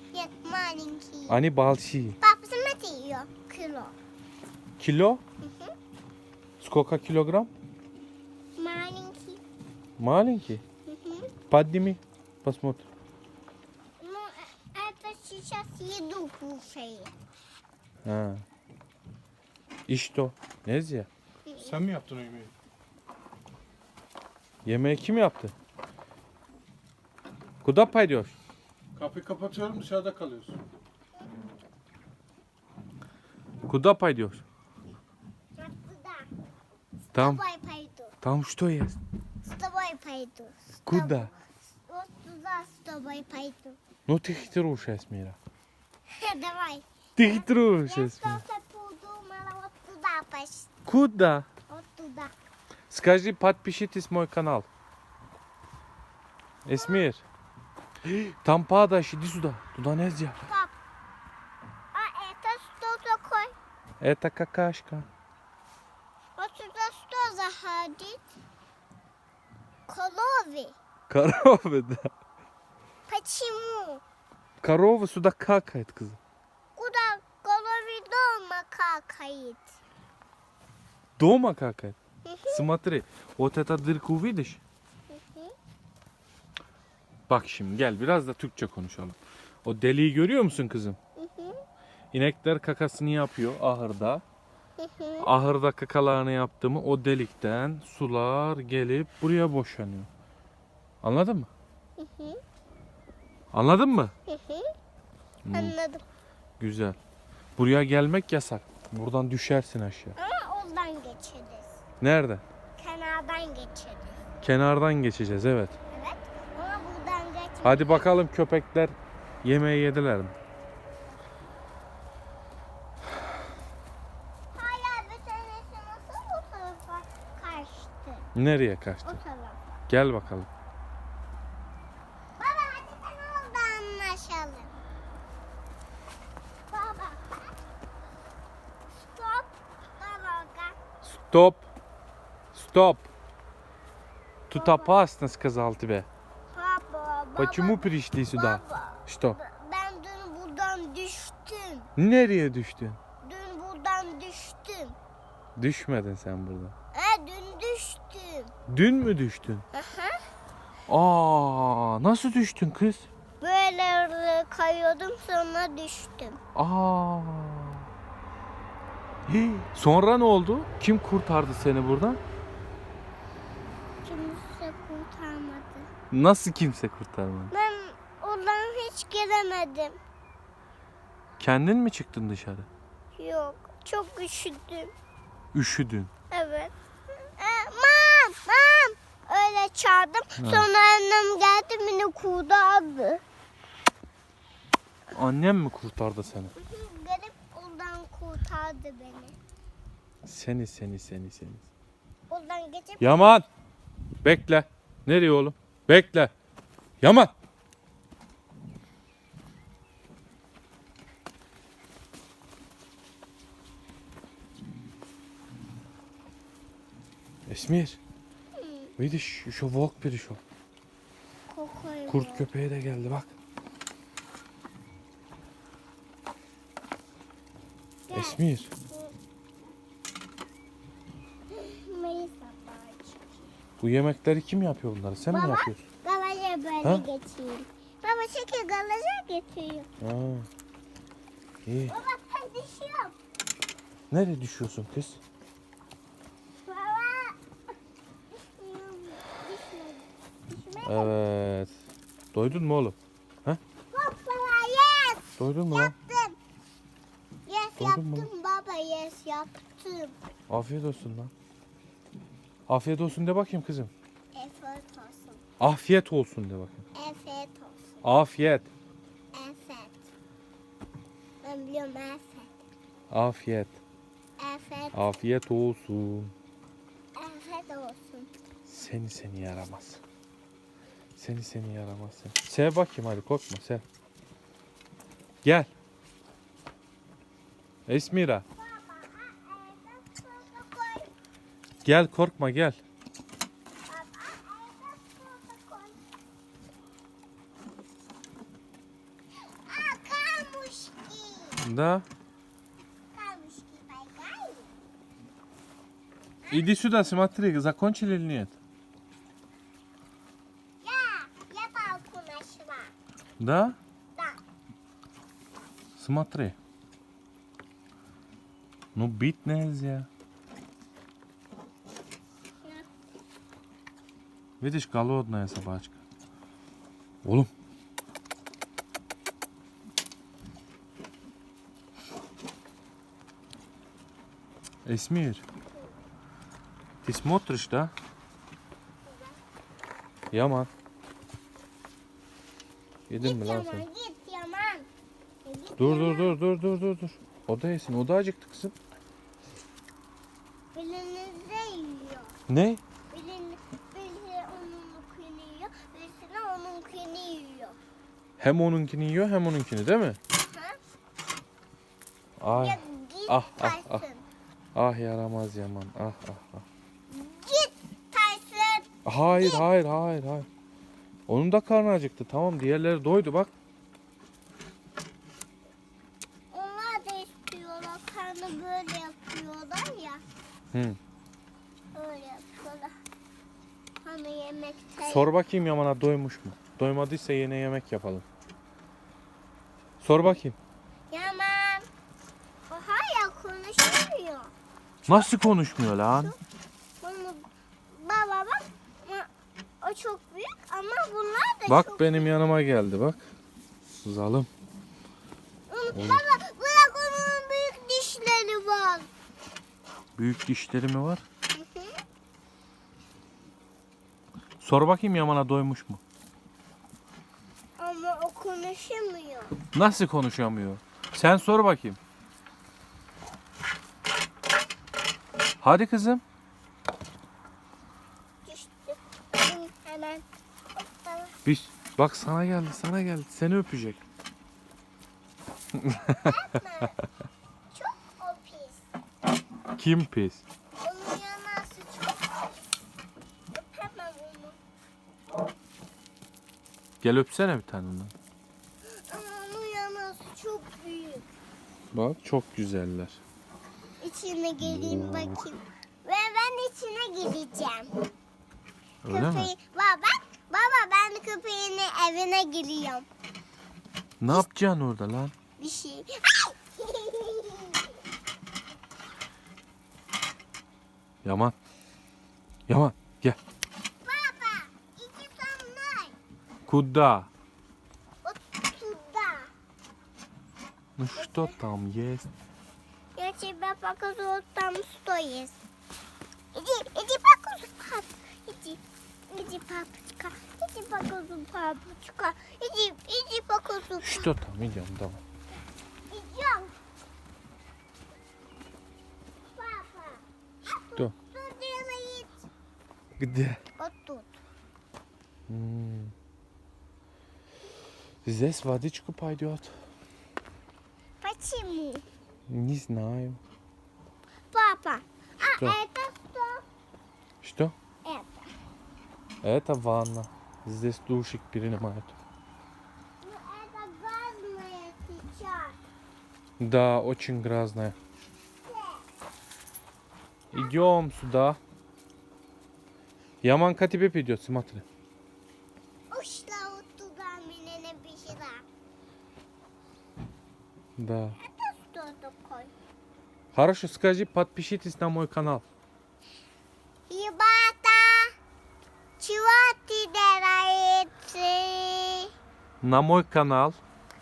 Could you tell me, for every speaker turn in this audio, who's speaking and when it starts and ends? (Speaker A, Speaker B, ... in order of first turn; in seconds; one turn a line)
Speaker A: 0.1-1.4
Speaker B: 1.3-2.2
Speaker A: 2.2-3.9
Speaker B: 4.8-5.2
Speaker A: 5.4-5.7
Speaker B: 6.6-7.5
Speaker A: 8.6-9.4
Speaker B: 10.0-10.6
Speaker A: 10.9-11.3
Speaker B: 11.5-12.9
Speaker A: 14.0-17.1
Speaker B: 18.0-18.4
Speaker B: 19.9-21.1
Speaker A: 21.4-21.8
Speaker C: 21.7-22.5
Speaker B: 24.6-25.5
Speaker B: 27.6-28.3
Speaker C: 28.9-30.6
Speaker B: 33.7-34.4
Speaker A: 35.6-36.3
Speaker B: 37.1-37.4
Speaker A: 37.1-38.1
Speaker B: 38.2-39.0
Speaker A: 39.4-43.8
Speaker B: 40.9-41.3
Speaker B: 44.1-45.4
Speaker A: 46.1-50.7
Speaker B: 47.2-48.4
Speaker B: 50.9-51.5
Speaker A: 51.7-52.3
Speaker B: 52.9-54.7
Speaker B: 56.6-57.2
Speaker A: 56.8-57.1
Speaker B: 58.1-60.5
Speaker A: 60.5-60.7
Speaker A: 61.9-63.5
Speaker B: 64.0-65.1
Speaker A: 66.4-68.2
Speaker A: 69.9-70.8
Speaker B: 71.1-72.1
Speaker A: 73.1-74.0
Speaker B: 74.6-76.2
Speaker A: 76.8-79.7
Speaker B: 81.2-82.0
Speaker A: 82.2-82.7
Speaker B: 82.5-84.6
Speaker A: 85.1-85.5
Speaker B: 87.3-91.0
Speaker A: 91.2-91.6
Speaker B: 92.1-94.2
Speaker A: 94.8-95.3
Speaker B: 95.2-100.1
Speaker B: 101.0-101.5
Speaker A: 102.0-102.4
Speaker B: 103.5-104.1
Speaker A: 104.3-104.7
Speaker B: 105.5-105.8
Speaker A: 105.5-106.0
Speaker B: 106.6-107.0
Speaker B: 107.6-110.2
Speaker A: 110.2-111.8
Speaker B: 112.0-112.4
Speaker A: 112.8-114.1
Speaker B: 114.4-115.7
Speaker A: 115.9-118.1
Speaker B: 117.6-120.3
Speaker A: 124.5-128.3
Speaker B: 128.3-129.2
Speaker A: 129.0-129.6
Speaker B: 129.9-130.5
Speaker A: 132.4-134.7
Speaker A: 136.7-137.6
Speaker A: 139.1-140.8
Speaker B: 141.0-141.7
Speaker B: 142.5-143.1
Speaker B: 144.5-146.1
Speaker A: 144.5-145.0
Speaker A: 146.5-151.9
Speaker B: 147.3-149.4
Speaker B: 152.0-153.0
Speaker A: 153.2-155.0
Speaker B: 155.6-156.7
Speaker A: 156.9-158.5
Speaker B: 158.7-159.7
Speaker A: 159.7-160.2
Speaker B: 160.9-163.1
Speaker A: 163.4-166.4
Speaker B: 166.5-167.8
Speaker B: 169.3-172.2
Speaker A: 174.0-175.9
Speaker B: 176.1-177.5
Speaker A: 177.5-180.0
Speaker B: 181.4-182.7
Speaker A: 183.2-184.9
Speaker B: 185.5-186.1
Speaker A: 186.3-186.7
Speaker A: 187.4-193.2
Speaker B: 190.4-190.7
Speaker B: 195.1-196.5
Speaker A: 196.6-199.3
Speaker B: 200.2-201.7
Speaker A: 202.3-203.4
Speaker B: 203.0-203.5
Speaker B: 204.2-206.3
Speaker B: 207.0-207.3
Speaker B: 217.5-218.0
Speaker A: 218.6-218.9
Speaker B: 219.0-220.4
Speaker A: 221.5-222.5
Speaker B: 222.1-223.3
Speaker A: 228.1-229.1
Speaker B: 228.1-228.7
Speaker A: 231.5-233.4
Speaker B: 233.8-235.8
Speaker A: 235.3-239.9
Speaker B: 240.0-240.5
Speaker B: 241.7-241.9
Speaker A: 241.9-243.2
Speaker B: 244.1-245.2
Speaker A: 246.7-247.4
Speaker A: 248.3-251.2
Speaker B: 250.8-251.7
Speaker B: 252.3-253.6
Speaker A: 253.9-256.4
Speaker B: 255.4-255.9
Speaker A: 257.5-260.2
Speaker B: 257.8-258.3
Speaker B: 260.5-261.3
Speaker B: 262.7-263.9
Speaker A: 264.3-265.4
Speaker B: 265.6-266.8
Speaker A: 266.9-267.9
Speaker B: 268.0-268.7
Speaker A: 269.3-270.0
Speaker A: 271.4-272.5
Speaker B: 273.1-273.8
Speaker A: 274.4-275.2
Speaker B: 274.9-276.3
Speaker A: 277.1-278.3
Speaker B: 278.7-280.0
Speaker B: 281.2-283.8
Speaker B: 285.4-285.7
Speaker B: 287.9-288.4
Speaker A: 288.6-291.1
Speaker B: 291.8-292.8
Speaker A: 293.9-296.0
Speaker A: 299.6-301.6
Speaker B: 301.6-302.1
Speaker A: 303.1-304.7
Speaker A: 306.4-306.7
Speaker B: 306.5-308.6
Speaker A: 310.8-312.9
Speaker B: 313.4-313.8
Speaker B: 316.0-316.6
Speaker B: 318.9-320.1
Speaker B: 324.6-326.0
Speaker B: 327.2-327.5
Speaker B: 334.9-335.4
Speaker B: 337.0-337.9
Speaker B: 340.3-340.7
Speaker B: 343.1-343.9
Speaker A: 343.2-344.9
Speaker A: 345.4-346.4
Speaker B: 345.8-348.8
Speaker A: 350.7-352.3
Speaker B: 352.5-352.8
Speaker A: 353.1-357.8
Speaker B: 358.4-360.2
Speaker A: 360.4-360.8
Speaker B: 362.4-364.0
Speaker A: 362.5-364.2
Speaker B: 364.8-366.6
Speaker A: 367.1-369.6
Speaker B: 369.1-370.5
Speaker B: 371.3-373.5
Speaker A: 376.5-380.2
Speaker B: 380.7-381.0
Speaker A: 381.9-382.9
Speaker A: 384.0-385.3
Speaker B: 385.0-388.2
Speaker B: 390.0-390.6
Speaker A: 391.1-391.9
Speaker A: 392.7-396.4
Speaker B: 395.1-396.3
Speaker A: 397.0-399.3
Speaker A: 399.8-402.3
Speaker B: 401.7-403.2
Speaker B: 404.0-404.5
Speaker A: 405.7-409.1
Speaker B: 405.9-406.2
Speaker B: 410.1-411.2
Speaker A: 411.5-412.0
Speaker B: 414.6-416.0
Speaker A: 417.8-419.6
Speaker B: 419.7-422.0
Speaker B: 425.6-426.2
Speaker A: 428.4-431.4
Speaker B: 431.4-434.0
Speaker B: 435.8-436.3
Speaker A: 436.0-436.9
Speaker A: 437.7-438.9
Speaker B: 439.8-440.4
Speaker A: 440.8-442.5
Speaker A: 443.5-444.6
Speaker B: 447.0-448.1
Speaker A: 449.1-451.3
Speaker B: 451.9-453.2
Speaker A: 454.0-458.1
Speaker B: 454.6-455.4
Speaker B: 459.0-459.5
Speaker A: 459.1-463.1
Speaker B: 464.2-465.3
Speaker A: 465.6-467.9
Speaker B: 471.2-471.6
Speaker B: 472.7-473.4
Speaker A: 474.0-476.2
Speaker B: 476.6-477.3
Speaker A: 478.2-479.5
Speaker B: 481.0-482.3
Speaker A: 481.1-481.6
Speaker A: 483.1-485.6
Speaker A: 486.5-494.3
Speaker B: 494.0-495.2
Speaker A: 496.1-496.8
Speaker A: 499.5-502.4
Speaker B: 503.2-503.6
Speaker A: 503.8-504.4
Speaker B: 505.5-506.1
Speaker B: 508.2-509.7
Speaker A: 511.2-512.1
Speaker B: 512.5-513.4
Speaker A: 514.5-516.6
Speaker B: 517.4-517.8
Speaker A: 518.0-518.5
Speaker B: 519.4-522.1
Speaker A: 523.2-525.8
Speaker B: 526.6-528.0
Speaker A: 528.6-529.0
Speaker B: 530.5-531.6
Speaker B: 533.4-534.9
Speaker A: 536.1-538.6
Speaker B: 541.0-541.4
Speaker A: 541.4-542.7
Speaker B: 543.5-545.6
Speaker A: 547.1-548.3
Speaker A: 549.2-552.3
Speaker B: 552.8-553.8